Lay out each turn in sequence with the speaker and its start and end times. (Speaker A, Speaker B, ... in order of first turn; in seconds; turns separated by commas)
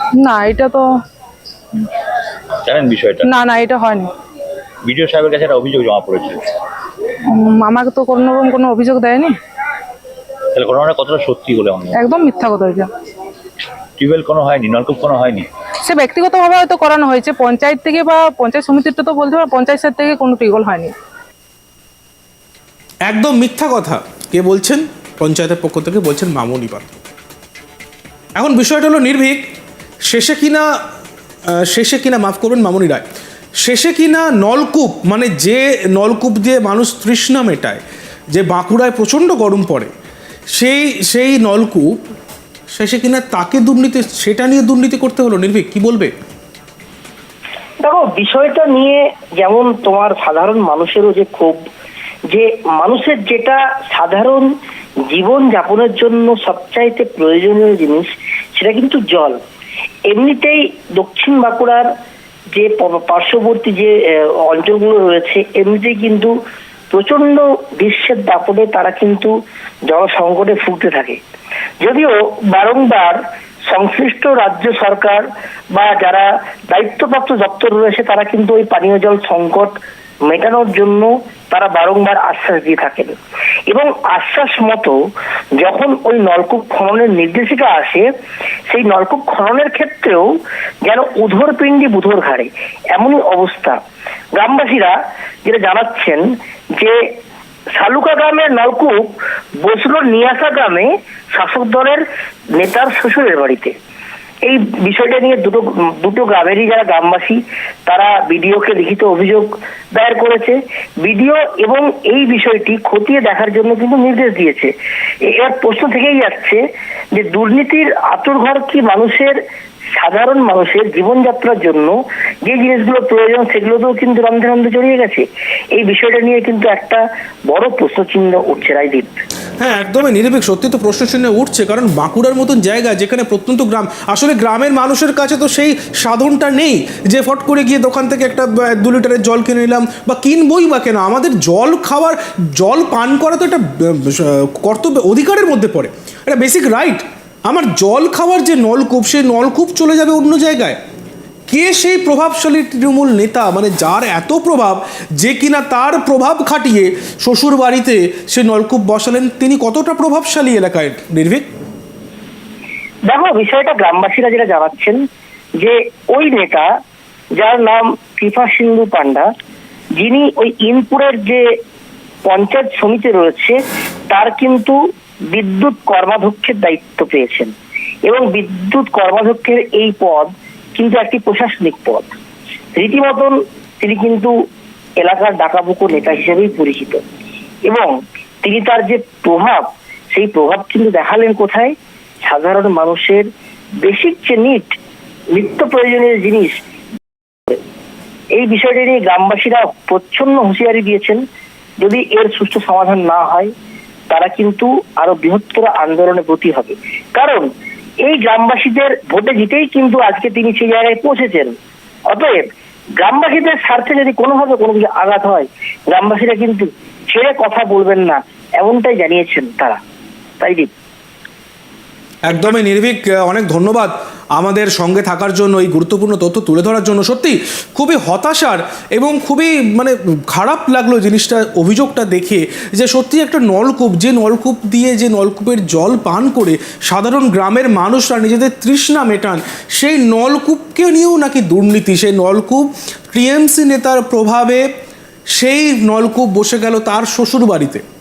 Speaker A: 0.2-0.9, Speaker B: 2.6-3.3, Speaker A: 3.2-4.1, Speaker B: 4.8-6.5, Speaker A: 7.3-9.3, Speaker B: 10.5-12.0, Speaker A: 11.9-12.9, Speaker B: 14.0-15.5, Speaker A: 15.8-20.9, Speaker C: 23.1-27.0, Speaker C: 28.4-29.4, Speaker C: 30.1-30.7, Speaker C: 31.6-33.1, Speaker C: 33.6-37.8, Speaker C: 38.3-39.9, Speaker C: 40.6-41.9, Speaker C: 42.8-46.1, Speaker D: 47.8-51.6, Speaker D: 52.3-54.5, Speaker D: 55.1-59.4, Speaker D: 60.1-61.9, Speaker D: 62.5-63.9, Speaker D: 64.5-66.3, Speaker D: 66.9-69.3, Speaker D: 69.9-71.2, Speaker D: 71.8-73.2, Speaker D: 73.7-79.7, Speaker D: 80.3-83.2, Speaker D: 83.7-85.0, Speaker D: 85.6-88.1, Speaker D: 88.7-90.3, Speaker D: 90.9-93.8, Speaker D: 94.4-96.3, Speaker D: 97.8-102.0, Speaker D: 102.6-103.7, Speaker D: 104.5-114.7, Speaker D: 115.3-116.6, Speaker D: 117.2-119.4, Speaker D: 120.0-129.1, Speaker C: 129.6-150.8, Speaker C: 151.5-161.5, Speaker D: 163.1-165.0, Speaker D: 165.6-166.7, Speaker D: 167.4-169.3, Speaker D: 170.0-171.4, Speaker D: 172.2-173.6, Speaker D: 174.1-174.8, Speaker D: 175.3-177.5, Speaker D: 178.1-182.2, Speaker D: 182.8-184.3, Speaker D: 185.0-187.0, Speaker D: 187.7-191.7, Speaker D: 192.2-193.3, Speaker D: 193.8-194.7, Speaker D: 195.3-196.6, Speaker D: 198.4-201.2, Speaker D: 201.8-203.5, Speaker D: 204.1-207.5, Speaker D: 208.1-211.6, Speaker D: 212.1-212.5, Speaker D: 213.0-219.8, Speaker D: 220.4-220.7, Speaker C: 222.3-244.7, Speaker C: 245.4-247.8